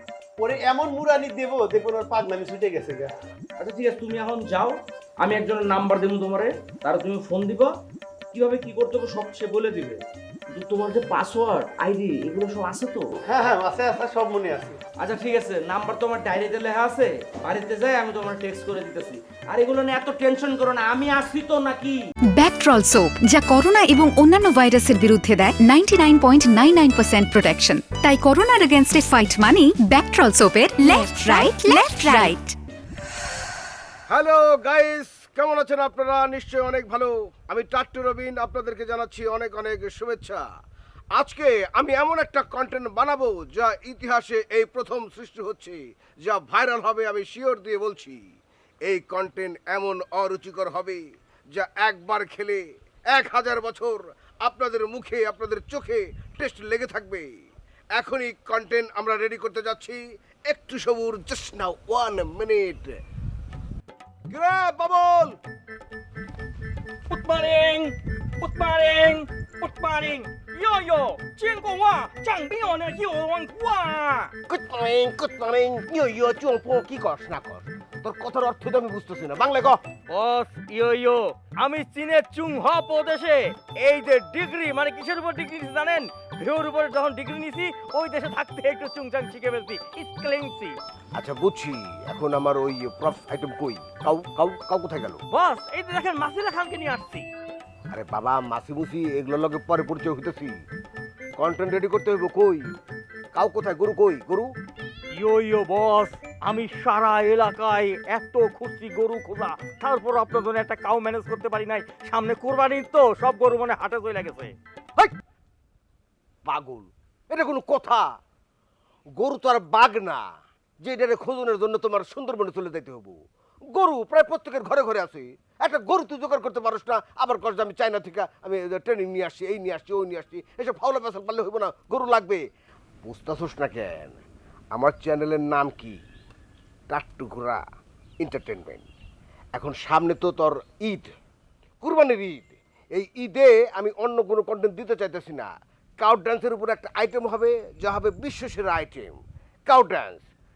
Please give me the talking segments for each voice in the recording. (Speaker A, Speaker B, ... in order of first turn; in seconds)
Speaker A: 0.4-3.1, 13.3-14.8
Speaker B: 3.6-7.7, 8.3-13.1, 15.0-22.0
Speaker C: 22.3-32.5
Speaker D: 34.1-40.4, 41.1-48.2, 48.8-52.6, 53.1-57.3, 57.9-62.9, 64.3-65.4, 74.5-79.8, 91.1-95.2, 97.9-100.5, 101.4-102.7, 103.3-104.5, 116.5-118.0, 119.1-120.2, 120.8-123.2, 123.7-132.4, 133.0-134.2, 134.7-135.9, 136.9-137.6, 138.2-138.8, 139.5-141.1, 141.8-150.2
Speaker E: 67.1-67.9, 68.5-74.2, 80.1-90.8, 95.3-97.2, 105.1-114.5